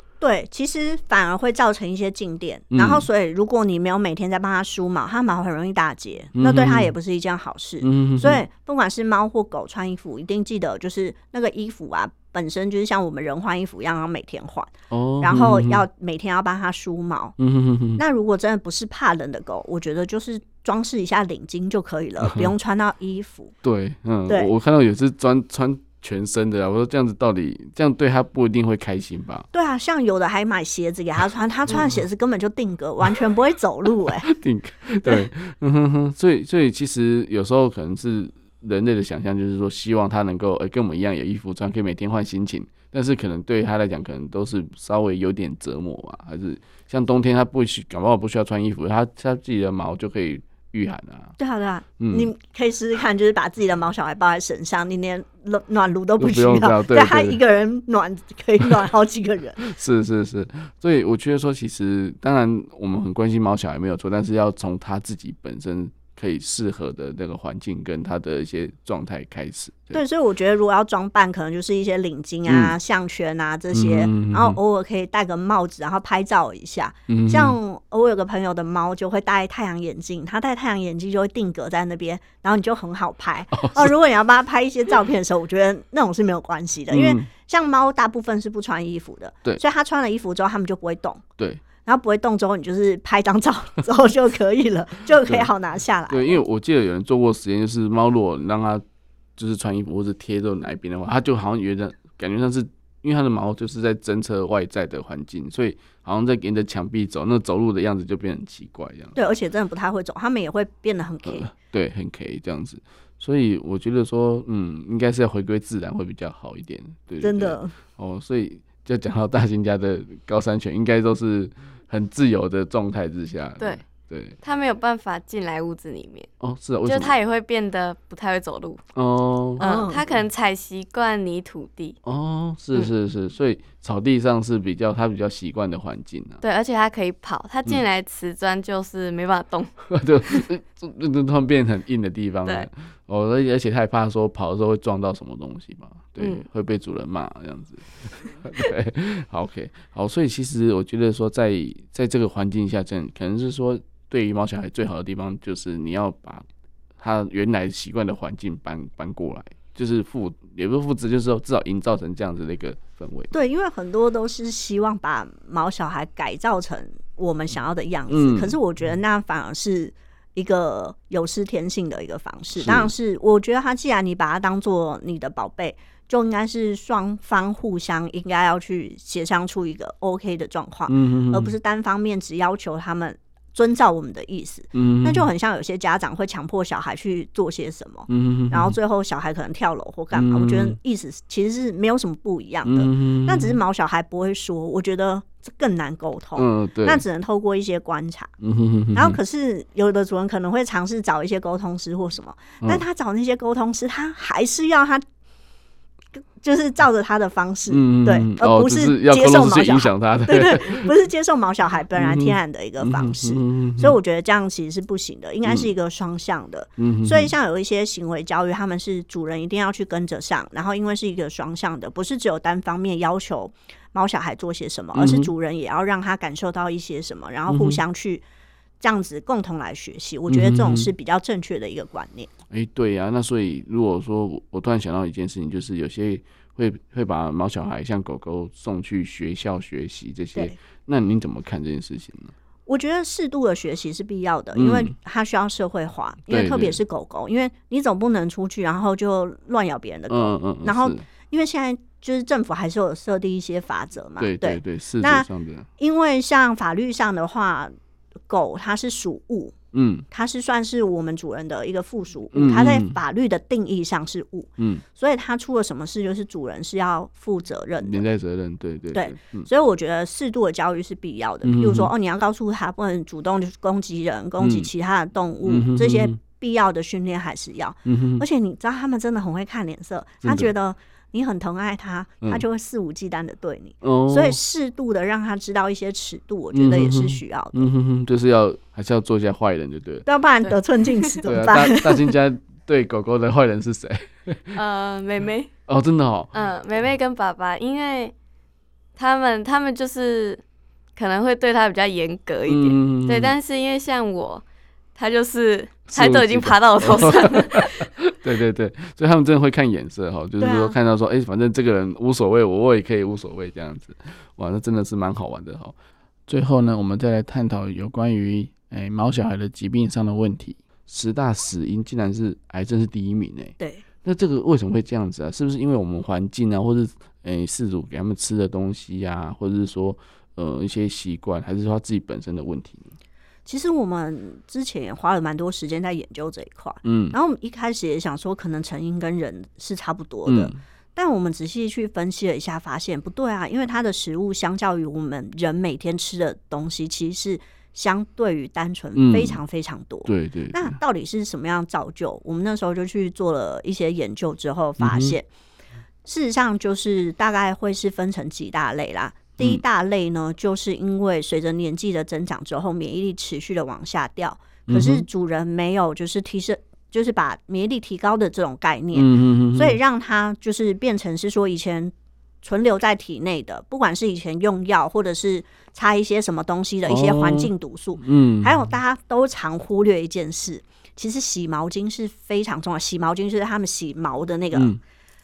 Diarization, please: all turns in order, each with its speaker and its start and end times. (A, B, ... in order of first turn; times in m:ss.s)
0:00.2-0:17.3 A
0:02.7-0:03.1 B
0:06.4-0:06.9 B
0:07.8-0:08.4 B
0:14.9-0:15.8 B
0:17.4-0:18.0 B
0:18.0-0:23.5 A
0:22.2-0:22.5 B
0:23.6-0:29.5 B
0:29.5-0:34.3 A
0:31.7-0:32.0 B
0:34.2-0:51.3 B
0:51.4-0:59.6 A
0:52.0-0:52.3 B
0:56.2-0:57.4 B
0:59.6-1:10.0 B
1:09.9-1:31.2 A
1:12.4-1:12.8 B
1:13.7-1:14.6 B
1:17.1-1:17.6 B
1:23.5-1:23.9 B
1:26.9-1:27.3 B
1:31.8-1:36.4 A
1:35.2-1:35.5 B
1:36.1-1:38.8 B
1:39.4-1:49.2 B
1:49.1-1:51.5 A
1:51.2-2:04.4 B
1:57.2-1:57.7 A
2:04.4-2:06.3 C
2:06.4-2:07.1 B
2:06.8-2:08.8 C
2:08.9-2:09.6 B
2:09.6-2:12.0 C
2:09.6-2:10.0 A
2:12.0-2:16.4 B
2:16.4-2:20.4 C
2:19.9-2:36.4 B
2:26.2-2:26.4 C
2:37.0-2:43.3 B
2:43.3-3:18.3 A
2:48.1-2:48.6 B
2:52.6-2:52.9 B
3:00.9-3:01.5 B
3:04.7-3:05.3 B
3:08.1-3:08.7 B
3:10.1-3:10.8 B
3:12.6-3:13.6 B
3:16.4-3:17.0 B
3:18.4-3:19.2 B
3:18.9-3:25.0 A
3:26.4-3:48.2 A
3:27.7-3:30.9 B
3:32.0-3:34.0 B
3:36.8-3:37.3 B
3:44.9-3:45.3 B
3:47.5-3:47.8 B
3:48.8-3:52.3 A
3:50.3-3:50.9 B
3:52.5-4:02.3 B
4:02.7-4:15.3 A
4:04.5-4:04.9 B
4:06.3-4:06.8 B
4:10.1-4:11.0 B
4:14.2-4:15.7 B
4:15.8-4:17.7 A
4:18.3-4:19.5 A
4:19.7-4:20.0 B
4:20.1-4:28.0 A
4:22.3-4:23.0 B
4:24.6-4:24.8 B
4:27.8-4:29.5 B
4:28.9-4:47.7 A
4:31.4-4:31.9 B
4:34.4-4:34.7 B
4:35.4-4:36.2 B
4:37.8-4:38.2 B
4:40.2-4:40.5 B
4:43.8-4:44.4 B
4:46.5-4:50.0 B
4:50.0-4:52.1 A
4:51.2-4:54.6 B
4:54.5-4:55.5 C
4:55.7-4:56.4 B
4:56.3-4:58.1 C
4:59.0-5:00.4 C
5:01.0-5:04.4 C
5:02.5-5:03.3 B
5:05.0-5:07.9 C
5:05.9-5:15.7 B
5:10.4-5:10.7 A
5:16.3-5:32.9 B
5:33.4-5:55.2 A
5:36.8-5:37.1 B
5:40.2-5:40.6 B
5:48.9-5:49.4 B
5:50.0-5:50.8 B
5:54.8-5:55.2 B
5:56.0-6:24.7 A
6:04.7-6:05.1 B
6:08.9-6:09.8 B
6:16.9-6:18.6 B
6:24.5-6:24.8 B